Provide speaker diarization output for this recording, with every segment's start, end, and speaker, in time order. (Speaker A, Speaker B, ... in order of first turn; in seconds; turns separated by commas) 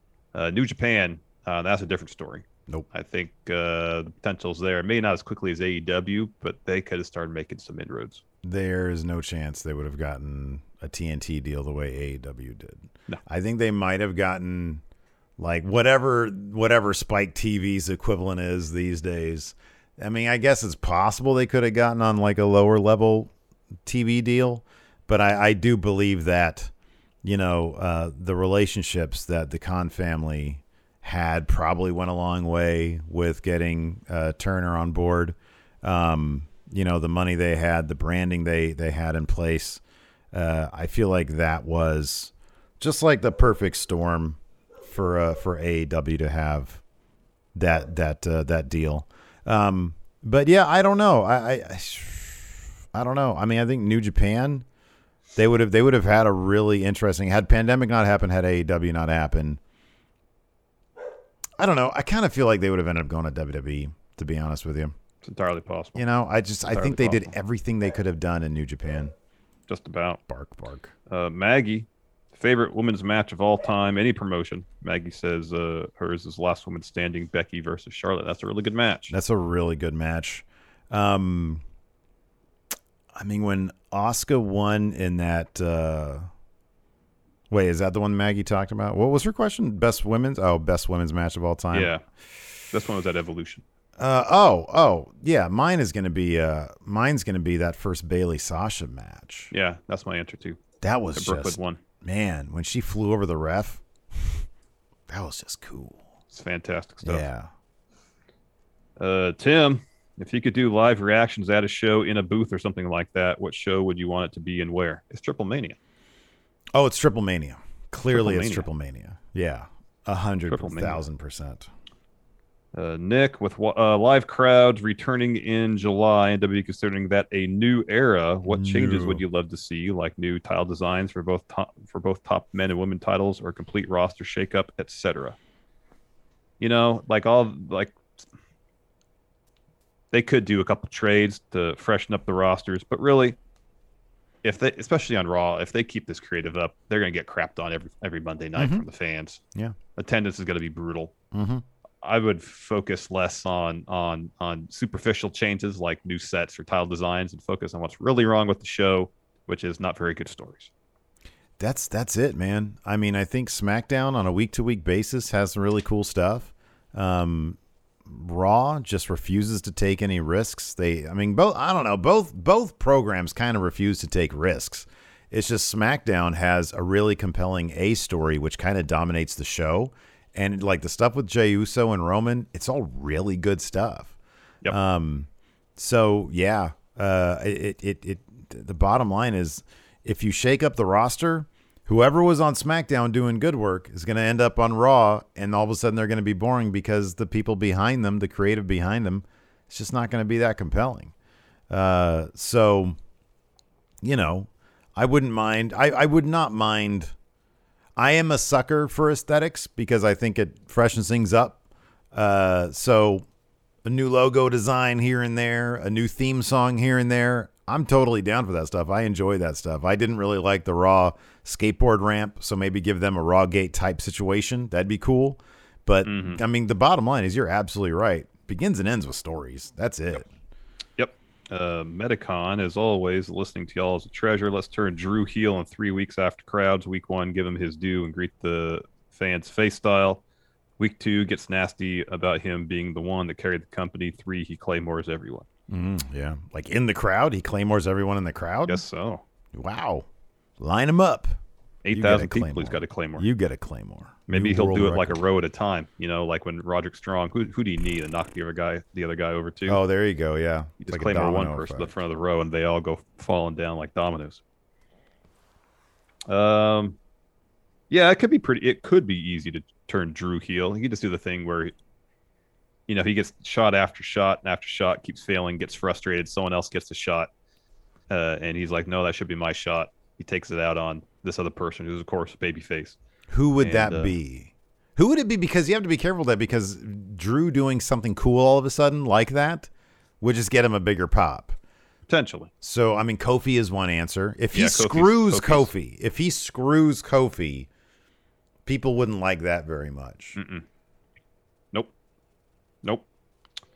Speaker A: 0.3-8.2, Speaker B: 8.4-14.8, Speaker B: 15.4-23.3, Speaker B: 23.9-26.7, Speaker B: 27.2-39.8, Speaker B: 40.3-46.8, Speaker B: 47.5-54.6, Speaker B: 55.4-59.6, Speaker B: 61.6-65.0, Speaker A: 65.2-66.1, Speaker B: 66.0-69.1, Speaker A: 66.7-67.3, Speaker A: 69.7-70.2, Speaker B: 70.3-70.9, Speaker A: 71.1-79.2, Speaker B: 79.1-81.6, Speaker B: 83.1-86.3, Speaker B: 87.5-91.9, Speaker A: 91.7-92.0, Speaker A: 92.7-93.6, Speaker B: 94.0-99.5, Speaker A: 99.5-100.6, Speaker B: 100.8-104.4, Speaker A: 101.2-101.8, Speaker B: 105.1-106.0, Speaker A: 106.3-107.3, Speaker B: 107.0-107.5, Speaker A: 109.0-115.8, Speaker B: 116.7-121.7, Speaker A: 118.1-118.7, Speaker A: 120.5-121.0, Speaker A: 122.7-135.4, Speaker B: 128.4-129.2, Speaker A: 136.6-138.0, Speaker A: 140.1-143.4, Speaker A: 144.4-149.4, Speaker B: 148.6-148.9, Speaker A: 150.0-151.1, Speaker B: 151.3-151.7, Speaker A: 152.0-160.7, Speaker B: 161.6-184.1, Speaker B: 184.7-201.1, Speaker B: 201.7-203.0, Speaker B: 204.0-207.1, Speaker B: 208.0-211.6, Speaker B: 212.1-213.3, Speaker B: 213.8-230.3, Speaker A: 226.0-226.4, Speaker A: 231.0-240.2, Speaker A: 240.8-245.5, Speaker B: 245.7-248.8, Speaker A: 248.7-249.2, Speaker B: 249.5-250.1, Speaker B: 250.6-251.4, Speaker A: 251.8-253.3, Speaker B: 251.9-255.2, Speaker A: 254.3-259.8, Speaker B: 259.7-261.9, Speaker A: 260.8-264.4, Speaker A: 266.3-267.0, Speaker A: 267.9-271.7, Speaker A: 272.9-277.3, Speaker A: 278.1-283.0, Speaker B: 283.3-289.7, Speaker A: 283.6-284.1, Speaker B: 290.2-291.6, Speaker A: 292.1-292.5, Speaker B: 292.6-297.7, Speaker A: 294.5-295.7, Speaker B: 298.7-300.4, Speaker A: 300.4-300.6